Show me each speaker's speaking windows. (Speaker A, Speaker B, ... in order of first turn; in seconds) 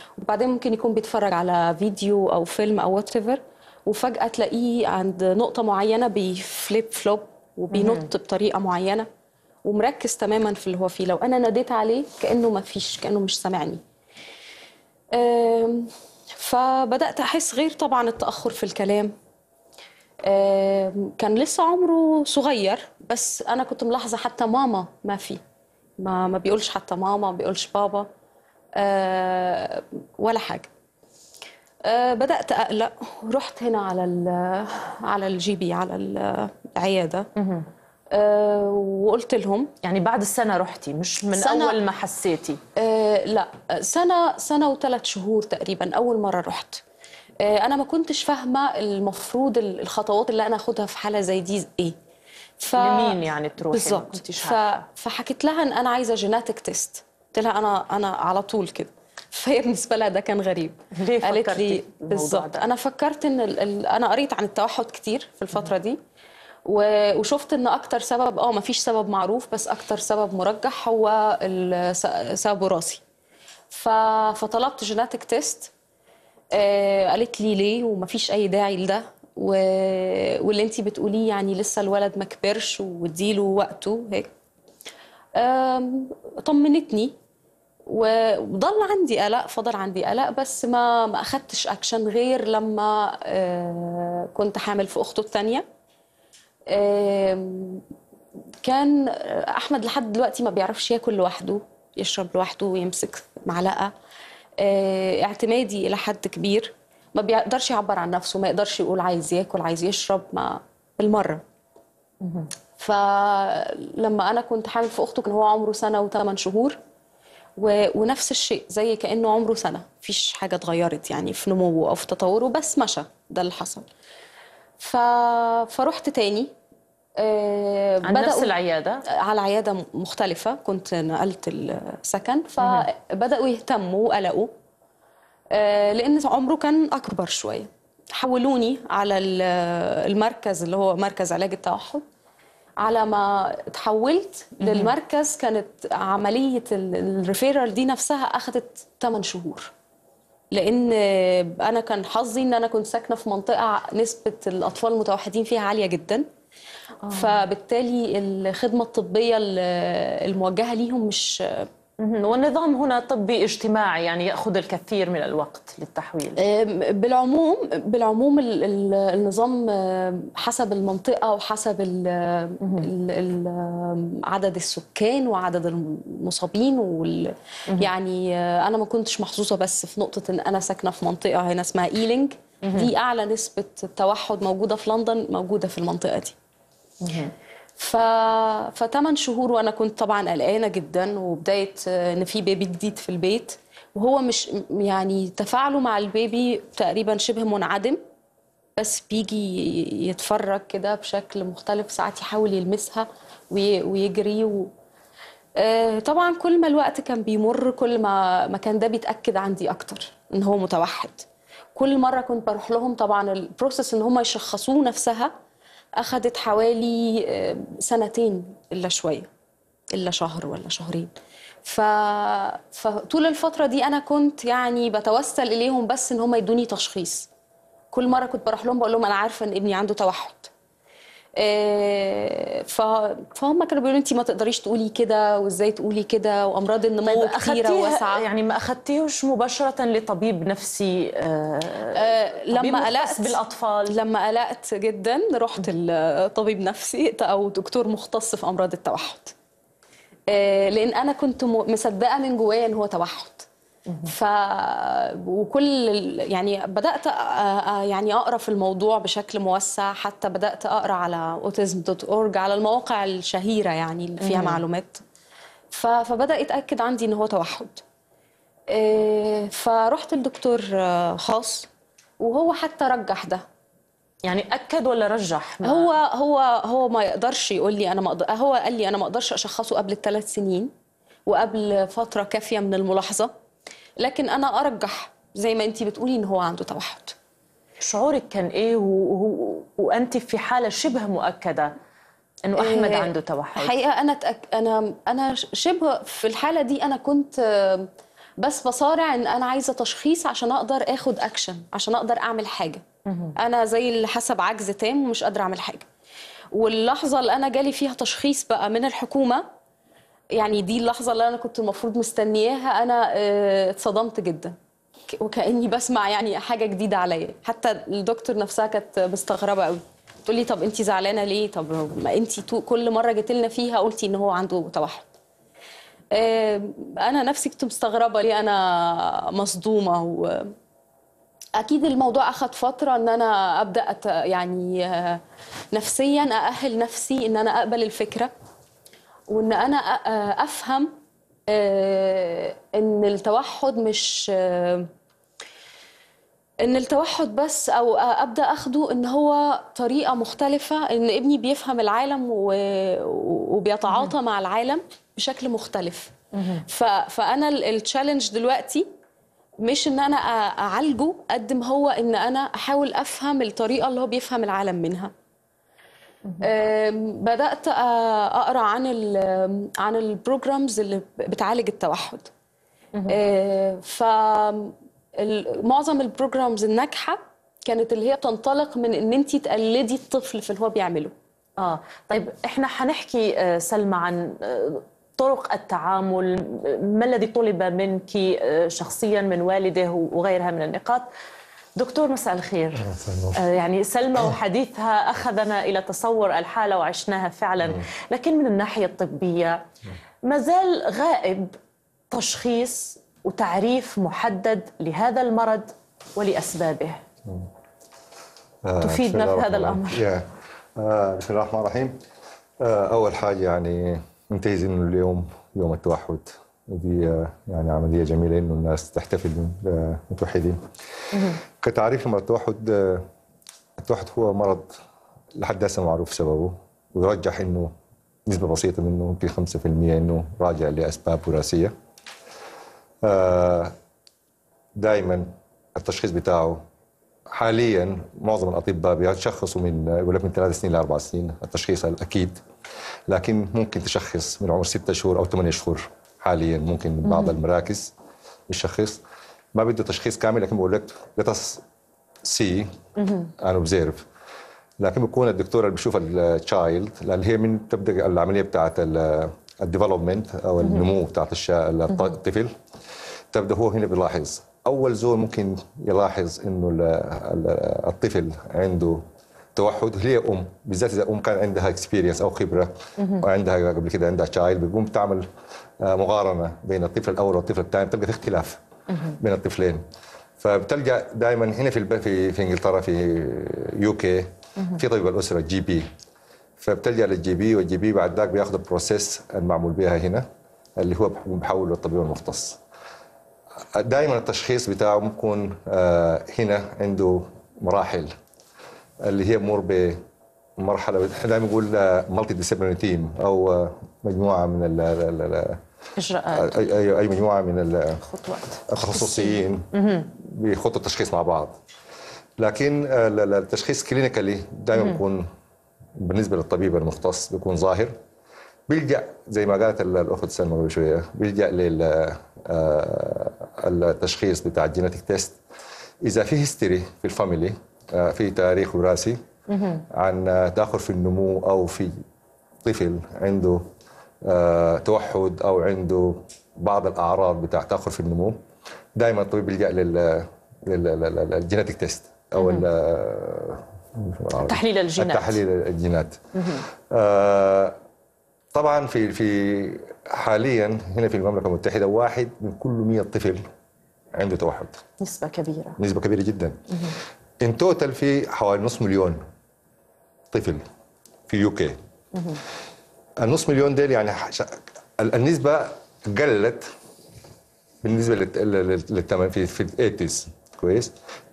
Speaker A: 0.2-9.1, 9.7-13.8, 15.1-19.1, 20.2-25.4, 26.0-28.1, 28.8-30.7, 31.9-37.3, 38.1-39.7, 41.4-41.8, 42.8-46.8, 47.4-52.0, 52.6-66.0, 66.7-73.0, 73.7-75.7, 76.5-84.3, 85.4-87.2, 87.9-95.7, 96.7-97.8, 98.6-103.9, 104.6-111.4, 112.8-116.8, 117.6-123.9, 124.8-126.5, 127.2-128.5, 129.2-134.5, 135.5-142.0, 142.8-149.7, 150.5-156.3, 157.1-161.7, 166.4-186.3, 187.8-198.0, 198.8-204.7, 205.6-215.3, 216.0-219.3, 219.9-221.1, 221.7-227.3, 227.9-230.5, 231.4-238.2, 242.0-249.3, 250.3-253.5, 254.1-265.0, 265.7-267.8, 268.7-271.7, 272.2-273.4, 275.6-280.7, 281.3-283.3, 284.0-287.1, 292.6-297.9, 298.4-302.8, 303.4-305.9, 306.5-309.5, 310.4-314.6, 315.1-325.1, 326.1-330.5, 331.6-335.2, 335.7-338.3, 339.3-340.9, 341.5-344.9, 346.6-356.1, 356.7-358.9, 359.6-365.1, 366.4-372.3, 373.1-381.1
Speaker B: 7.7-8.1, 37.4-37.7, 39.8-42.6, 52.8-54.8, 61.0-62.7, 112.2-112.5, 128.0-129.0, 144.6-144.9, 157.1-157.4, 162.0-166.4, 172.6-172.9, 182.7-182.9, 187.0-187.3, 237.1-242.0, 242.5-244.0, 264.2-264.6, 274.3-275.9, 287.8-291.7, 292.5-293.7, 303.1-303.3, 356.3-356.6, 381.6-391.1, 391.8-392.8, 393.4-399.6, 400.3-401.6, 402.1-407.0, 408.8-410.1, 421.1-421.4, 447.1-447.4, 453.0-453.3, 473.0-473.2, 478.9-479.2, 506.0-506.7, 508.0-510.1, 529.5-529.8, 542.4-542.7, 544.5-545.4, 546.4-546.6, 555.0-555.8, 562.1-562.4
Speaker C: 392.8-393.4, 408.6-412.0, 412.6-420.6, 421.6-423.1, 423.8-424.7, 425.4-427.7, 428.3-431.7, 433.0-433.7, 434.8-436.6, 437.3-442.4, 443.1-447.9, 448.5-449.0, 449.6-451.6, 452.3-452.7, 453.4-454.0, 454.8-462.5, 463.3-469.0, 469.6-475.3, 475.8-478.6, 479.2-479.8, 480.4-485.9, 486.6-490.2, 490.8-492.6, 493.8-498.1, 499.0-500.0, 500.6-505.6, 506.3-508.0, 508.7-509.6, 510.2-511.6, 512.4-515.3, 516.0-517.9, 518.7-525.4, 526.0-529.2, 530.0-531.9, 532.6-533.6, 534.3-538.4, 539.0-546.2, 546.9-547.8, 548.5-553.4, 554.1-554.8, 555.8-556.6, 557.4-559.2, 560.3-560.6, 561.3-561.8, 563.2-566.7, 567.8-570.9